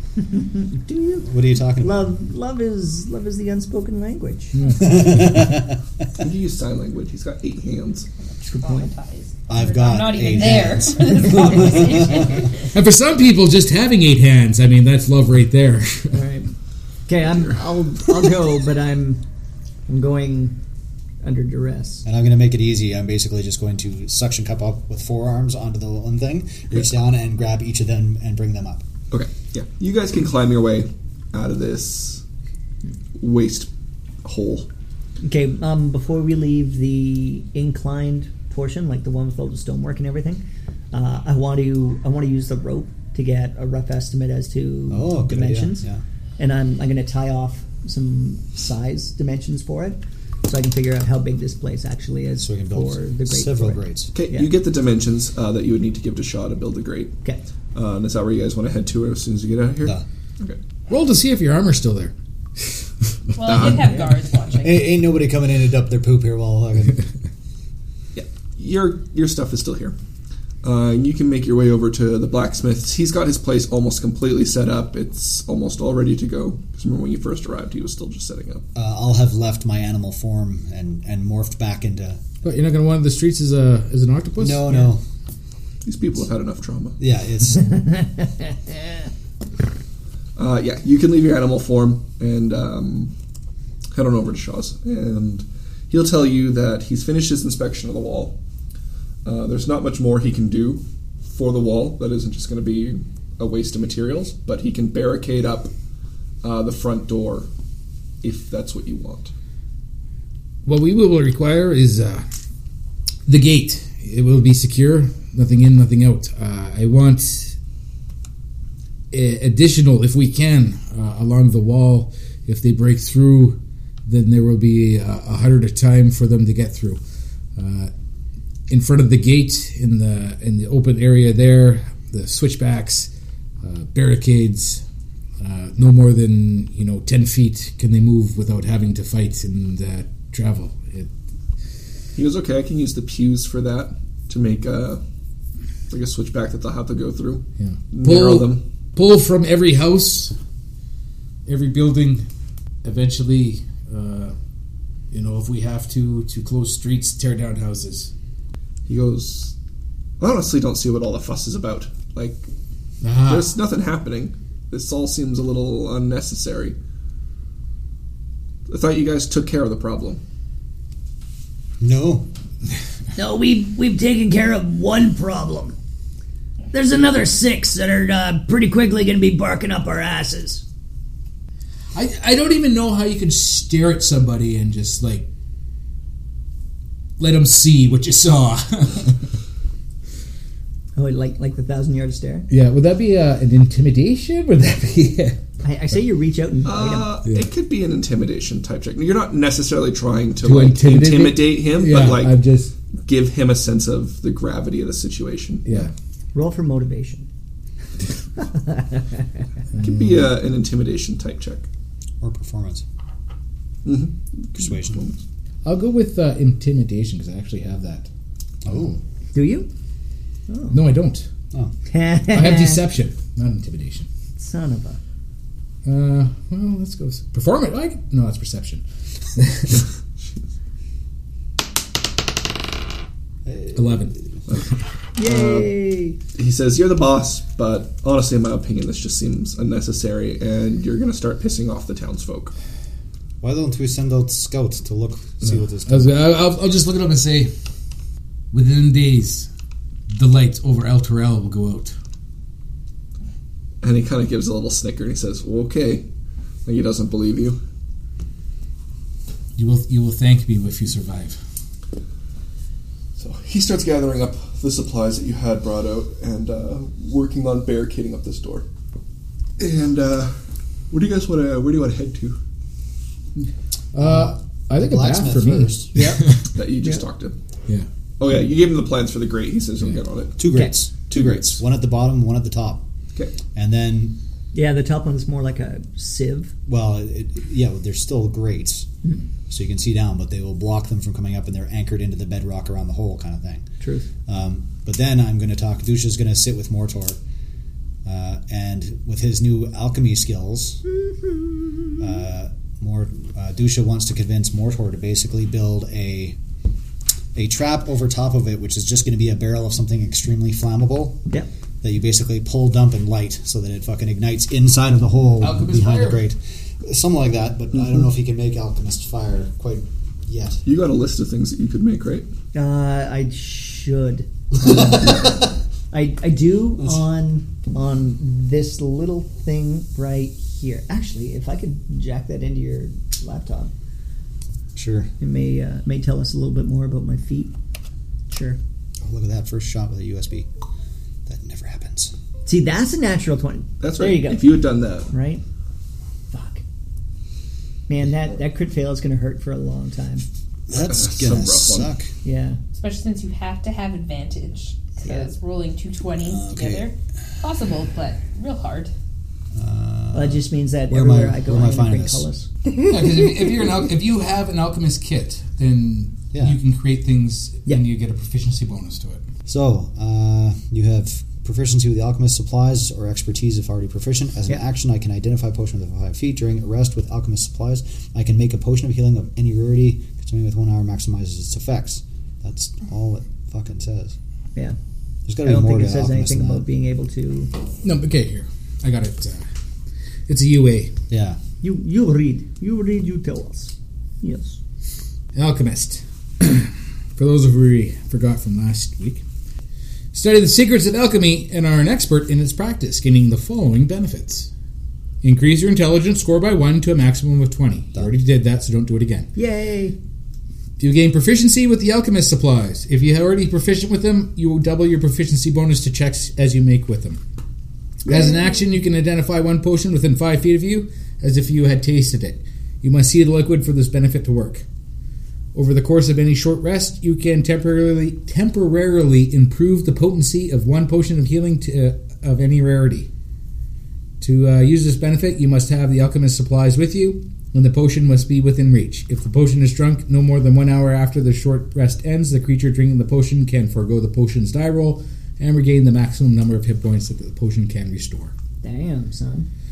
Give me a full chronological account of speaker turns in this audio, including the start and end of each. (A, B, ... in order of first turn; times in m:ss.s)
0:00.3-0:04.7 A
0:01.2-0:02.1 B
0:04.6-0:05.5 C
0:04.8-0:05.8 B
0:06.2-0:08.1 D
0:08.2-0:12.7 E
0:08.4-0:08.9 A
0:09.5-0:12.5 B
0:12.7-0:16.3 C
0:16.1-0:16.5 A
0:17.1-0:19.2 A
0:17.2-0:17.6 D
0:19.9-0:20.6 A
0:21.2-0:22.0 A
0:22.0-0:28.8 B
0:29.1-0:32.2 D
0:33.2-0:33.7 D
0:34.2-0:34.7 D
0:35.2-0:45.8 A
0:44.9-0:46.0 B
0:46.4-0:54.5 A
0:52.4-0:54.1 B
0:54.2-0:57.2 D
0:57.7-1:00.6 D
1:00.9-1:02.9 C
1:03.4-1:04.8 E
1:03.4-1:04.0 D
1:03.6-1:03.9 C
1:04.6-1:07.0 B
1:08.2-1:10.0 D
1:10.6-1:18.6 D
1:18.8-1:22.2 B
1:22.4-1:24.9 C
1:24.4-1:25.0 B
1:25.8-1:27.0 D
1:27.0-1:27.8 B
1:30.4-1:33.1 D
1:33.9-1:38.4 D
1:39.2-1:45.7 D
1:46.4-1:47.5 D
1:48.2-1:49.3 D
1:50.7-1:52.3 C
1:53.3-1:57.6 C
1:59.1-2:07.0 C
2:07.6-2:07.9 C
2:08.7-2:13.1 C
2:13.6-2:14.8 C
2:15.4-2:21.1 C
2:22.2-2:25.0 D
2:25.9-2:28.7 D
2:27.6-2:30.4 C
2:31.5-2:32.3 C
2:32.8-2:34.4 C
2:35.1-2:38.1 C
2:38.9-2:39.5 D
2:40.2-2:42.5 D
2:43.0-2:43.5 C
2:43.3-2:46.8 D
2:48.7-2:50.2 D
2:51.8-2:52.3 B
2:53.2-2:55.8 F
2:56.7-3:00.6 F
3:01.9-3:05.3 C
3:07.2-3:09.2 C
3:11.0-3:12.5 A
3:12.5-3:15.4 C
3:15.6-3:17.1 A
3:16.6-3:22.4 D
3:20.4-3:22.7 C
3:23.0-3:25.7 D
3:25.6-3:25.9 C
3:26.3-3:27.3 A
3:28.4-3:29.2 A
3:29.7-3:30.3 C
3:29.8-3:31.7 D
3:32.2-3:32.8 B
3:33.8-3:35.2 D
3:34.6-3:35.1 B
3:35.6-3:38.1 C
3:38.6-3:39.0 B
3:38.7-3:39.0 C
3:39.3-3:39.7 A
3:40.5-3:40.9 A
3:40.7-3:41.3 C
3:41.9-3:42.8 A
3:42.3-3:44.1 C
3:44.4-3:45.0 A
3:45.8-3:48.8 C
3:49.4-3:49.8 C
3:53.5-3:54.2 B
3:53.7-3:54.2 C
3:54.5-3:55.7 D
3:55.2-3:56.2 A
3:56.4-4:02.5 D
4:03.4-4:06.2 B
4:05.4-4:07.5 C
4:08.5-4:09.5 C
4:10.1-4:12.0 C
4:13.8-4:16.0 D
4:16.7-4:17.6 D
4:19.6-4:21.4 C
4:23.2-4:28.7 D
4:29.6-4:30.4 D
4:30.9-4:32.4 D
4:33.9-4:36.5 C
4:34.0-4:35.9 B
4:35.9-4:36.3 A
4:36.5-4:37.4 D
4:38.2-4:40.4 D
4:40.4-4:42.8 B
4:40.5-4:40.8 A
4:43.5-4:44.2 B
4:44.5-4:46.5 A
4:46.7-4:48.9 B
4:49.5-4:53.7 B
4:53.8-4:54.1 A
4:54.3-4:57.2 B
4:58.0-5:00.8 B
5:02.0-5:06.4 B
5:07.4-5:11.2 B
5:11.8-5:20.6 B
5:15.4-5:16.3 C
5:20.6-5:22.3 D
5:22.5-5:25.4 A
5:25.9-5:33.7 A
5:34.8-5:35.1 B
5:35.2-5:37.5 A
5:38.3-5:38.6 A
5:39.0-5:40.5 B
5:41.3-5:42.1 B
5:42.5-5:45.4 A
5:43.8-5:45.1 D
5:46.3-5:46.6 A
5:47.9-5:50.3 A
5:50.7-5:52.1 B
5:50.8-5:51.9 D
5:52.2-5:52.6 A
5:52.7-5:58.9 E
5:56.2-5:56.9 B
5:59.5-6:02.3 B
6:00.1-6:03.7 A
6:02.8-6:09.2 C
6:06.3-6:06.6 B
6:09.5-6:24.2 B
6:25.3-6:26.6 B
6:25.4-6:27.5 A
6:27.8-6:29.4 C
6:30.3-6:30.9 C
6:31.1-6:31.4 B
6:31.6-6:34.6 A
6:35.4-6:39.2 C
6:40.1-6:44.5 C
6:45.2-6:49.3 C
6:49.4-6:50.0 A
6:50.8-6:57.2 C
6:58.0-7:04.6 C
6:58.1-6:58.6 A
7:05.5-7:13.1 C
7:14.2-7:28.3 C
7:28.6-7:29.5 A